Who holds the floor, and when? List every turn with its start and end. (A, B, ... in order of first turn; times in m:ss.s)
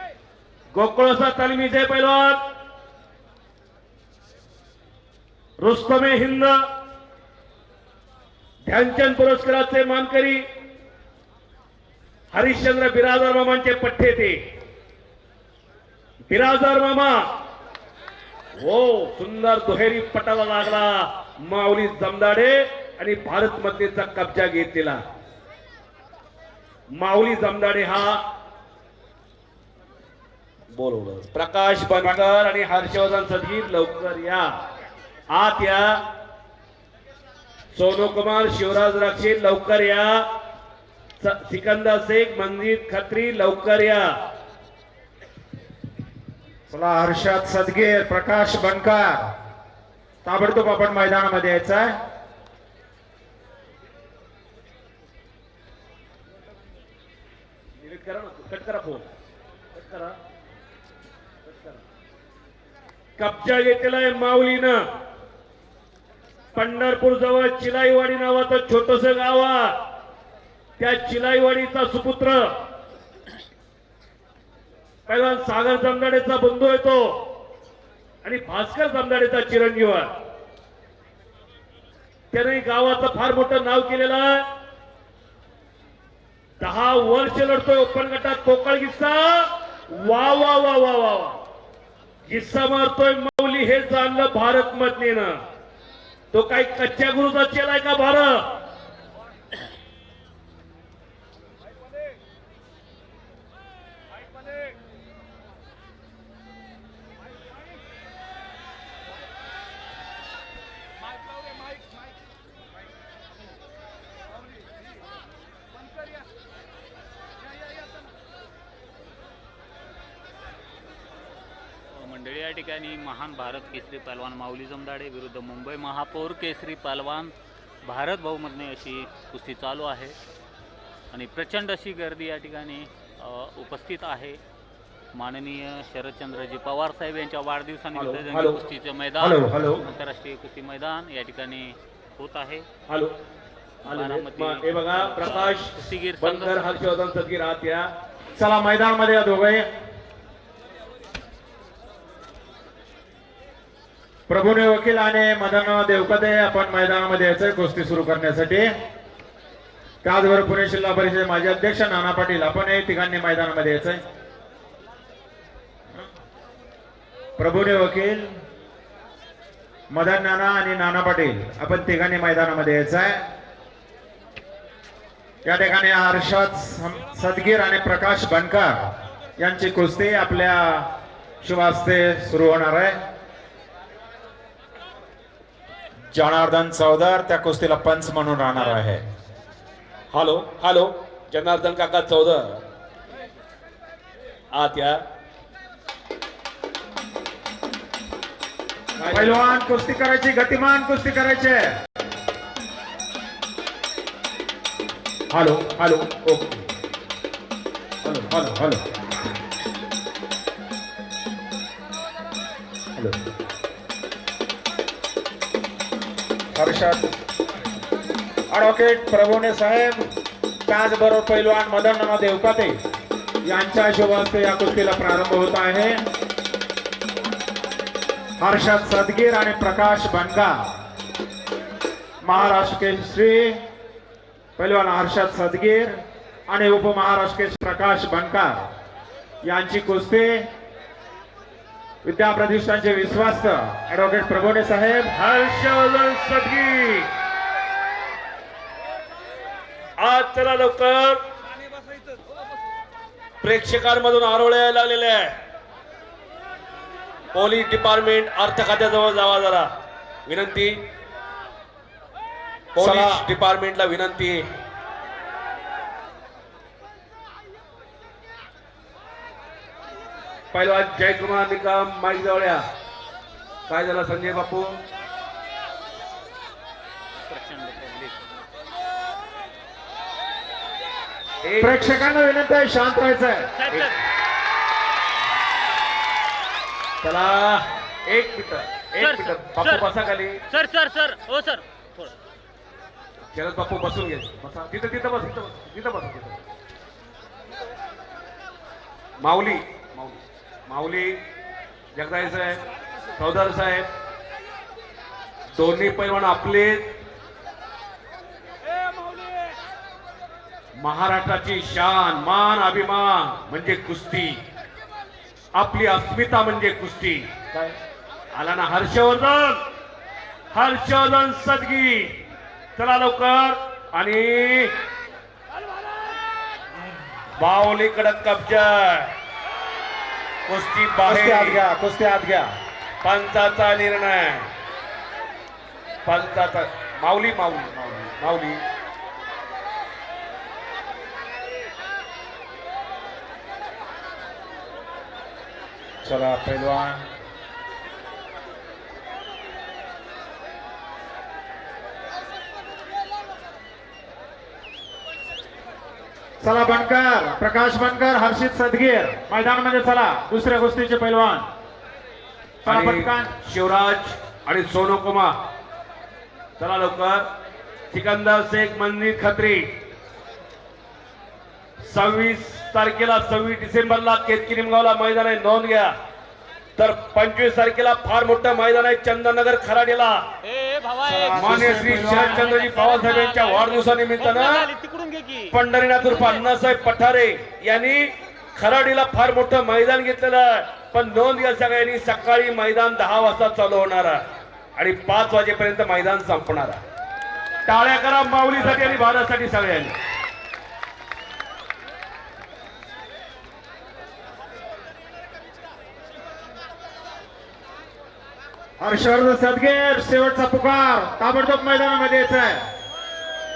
0:00.7-0:02.4 A
0:05.6-0:06.6 A
0:08.6-0:10.4 A
0:12.3-0:14.4 A
0:16.3-0:17.2 A
0:18.6-0:25.0 A
0:27.0-0:28.2 A
0:30.7-0:34.5 A
0:35.3-0:36.0 A
0:37.7-0:40.2 A
0:41.2-0:44.1 A
0:46.7-0:49.3 B
0:50.2-0:51.9 B
0:57.8-0:59.1 A
0:59.7-1:00.2 A
1:01.4-1:01.8 A
1:03.2-1:04.8 A
1:06.5-1:09.7 A
1:10.8-1:12.5 A
1:15.1-1:17.2 A
1:18.2-1:20.1 A
1:22.3-1:24.5 A
1:26.6-1:31.4 A
1:32.3-1:35.3 A
1:36.3-1:38.5 A
2:01.9-2:07.3 C
2:07.8-2:10.1 C
2:11.1-2:14.4 C
2:15.1-2:22.6 C
2:17.9-2:18.6 A
2:19.2-2:19.8 A
2:22.9-2:23.1 A
2:23.8-2:27.9 A
2:23.8-2:26.6 C
2:28.4-2:29.6 B
2:34.3-2:38.7 B
2:40.0-2:44.0 B
2:47.4-2:48.3 B
2:49.9-2:53.2 B
2:55.4-3:00.9 B
3:01.4-3:03.0 B
3:06.1-3:09.0 B
3:10.1-3:12.6 A
3:14.5-3:15.0 A
3:19.0-3:19.5 A
3:19.1-3:21.7 B
3:25.3-3:26.6 A
3:28.0-3:28.4 A
3:28.3-3:28.8 B
3:36.5-3:37.1 B
3:38.5-3:40.1 B
3:40.7-3:42.8 B
3:43.4-3:46.0 B
3:48.4-3:50.6 B
3:52.2-3:53.6 B
3:54.6-3:58.6 B
3:59.4-4:00.5 B
4:02.0-4:05.1 B
4:05.1-4:07.1 A
4:10.0-4:11.2 A
4:13.4-4:15.3 A
4:17.3-4:19.7 A
4:20.3-4:20.8 A
4:22.7-4:24.4 A
4:22.8-4:23.2 B
4:30.5-4:32.6 A
4:33.7-4:34.8 A
4:37.3-4:38.2 C
4:41.4-4:42.1 A
4:41.6-4:43.5 B
4:43.5-4:44.0 C
4:47.0-4:50.4 A
4:49.0-4:49.9 C
4:50.5-4:52.1 C
4:53.3-4:56.4 A
4:59.2-5:01.2 A
5:01.9-5:02.6 A
5:03.2-5:03.9 A
5:05.6-5:06.9 A
5:10.8-5:14.4 A
5:15.5-5:17.8 A
5:18.3-5:19.6 A
5:20.5-5:22.1 A
5:22.8-5:24.7 A
5:27.4-5:29.1 A
5:30.5-5:31.6 A
5:31.0-5:32.5 B
5:33.0-5:34.5 A
5:36.0-5:38.6 A
5:46.0-5:47.0 B
5:56.4-6:01.4 B
6:02.6-6:05.4 A
6:02.6-6:03.3 B
6:06.6-6:07.2 A
6:07.9-6:09.6 A
6:11.8-6:15.9 A
6:16.8-6:20.2 A
6:20.4-6:26.4 C
6:21.0-6:22.5 B
6:21.3-6:24.6 A
6:25.5-6:34.2 A
6:34.8-6:36.8 A
6:37.6-6:39.9 A
6:48.8-6:52.7 B